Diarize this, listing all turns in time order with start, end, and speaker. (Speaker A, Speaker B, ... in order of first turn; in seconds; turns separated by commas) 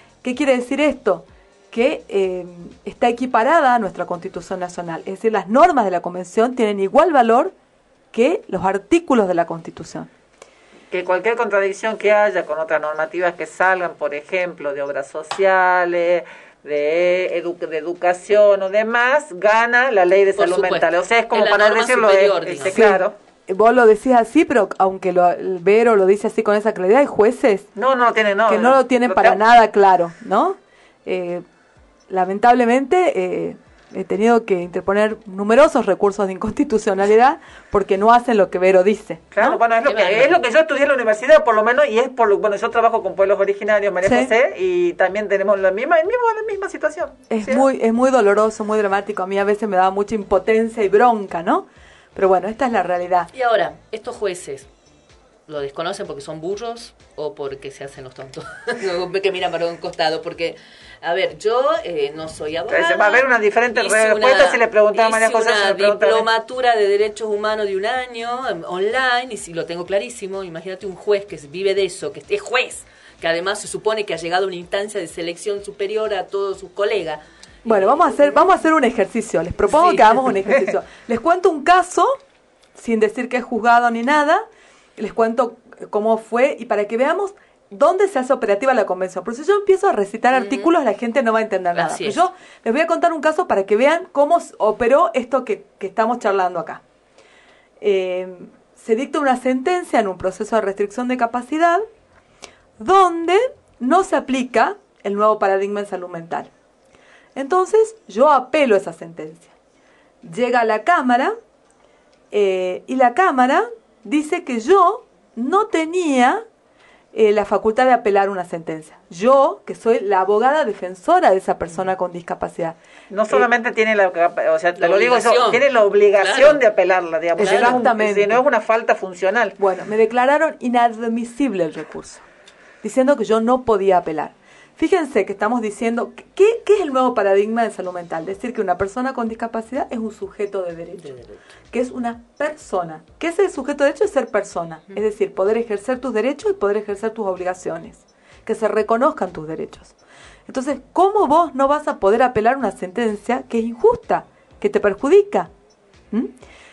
Speaker A: 0.2-7.5, Speaker A: 8.1-10.1, Speaker B: 10.9-23.1, Speaker C: 20.4-22.8, Speaker A: 22.7-27.7, Speaker B: 27.8-29.4, Speaker A: 28.4-31.4, Speaker A: 32.1-39.6, Speaker B: 39.3-47.7, Speaker C: 39.8-40.4, Speaker A: 44.0-44.3, Speaker A: 47.3-53.3, Speaker C: 53.3-54.7, Speaker C: 55.5-78.5, Speaker B: 62.7-66.3, Speaker A: 77.7-82.2, Speaker C: 79.7-80.5, Speaker A: 82.8-84.5, Speaker A: 85.0-96.8, Speaker C: 90.3-90.7, Speaker C: 91.7-92.2, Speaker A: 97.8-101.8, Speaker A: 102.8-106.5, Speaker A: 107.3-109.5, Speaker A: 110.2-111.3, Speaker A: 112.3-116.4, Speaker A: 117.1-122.8, Speaker B: 123.1-129.6, Speaker C: 124.8-126.6, Speaker C: 127.4-127.9, Speaker A: 127.4-128.4, Speaker A: 129.6-132.2, Speaker A: 132.8-141.1, Speaker C: 141.0-141.4, Speaker A: 141.7-149.9, Speaker A: 150.5-155.5